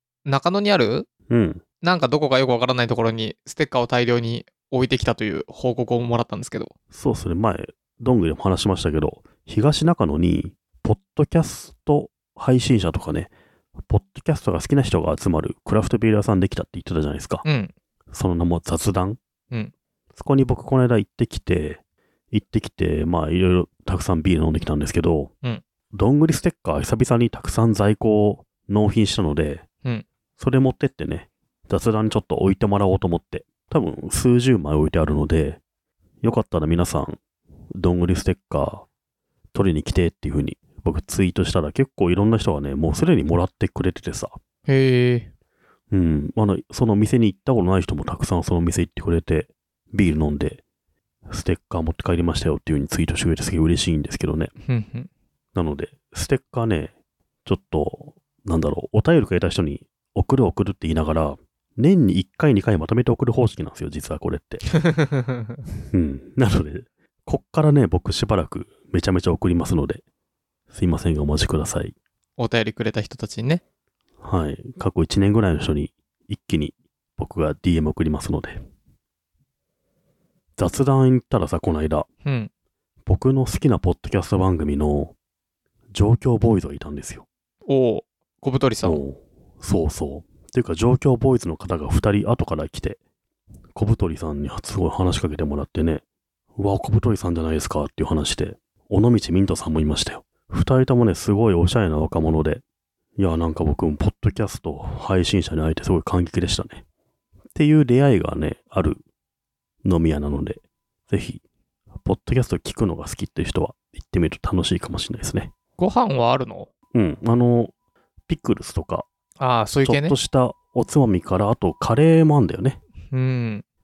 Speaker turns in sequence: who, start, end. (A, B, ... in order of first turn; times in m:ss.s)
0:00.2-0:01.1 A
0:01.3-0:01.6 B
0:01.8-0:06.7 A
0:06.9-0:13.3 B
0:13.9-0:17.4 B
0:17.4-0:17.7 A
0:18.1-0:19.2 B
0:20.1-0:21.8 B
0:22.3-0:25.3 B
0:25.9-0:29.6 B
0:30.4-0:35.6 B
0:36.2-0:37.2 B
0:37.8-0:38.8 B
0:39.5-0:44.4 B
0:44.7-0:45.3 A
0:45.9-0:50.6 B
0:51.3-0:54.5 B
0:54.7-0:55.1 A
0:55.5-0:56.9 B
0:57.4-1:04.7 B
1:04.8-1:05.6 A
1:05.9-1:10.0 B
1:10.7-1:12.0 B
1:12.4-1:13.6 A
1:14.2-1:18.6 B
1:20.6-1:22.1 B
1:22.2-1:22.5 A
1:23.0-1:25.1 B
1:25.9-1:27.2 B
1:27.7-1:29.0 A
1:28.8-1:33.0 B
1:33.7-1:36.0 B
1:36.6-1:42.6 B
1:43.2-1:46.8 B
1:47.5-1:49.0 B
1:49.8-1:51.4 B
1:52.0-1:55.5 B
1:55.8-1:56.7 A
1:56.9-1:57.7 B
1:58.3-1:59.0 B
1:59.4-2:00.2 A
1:59.8-2:02.8 B
2:03.1-2:03.6 A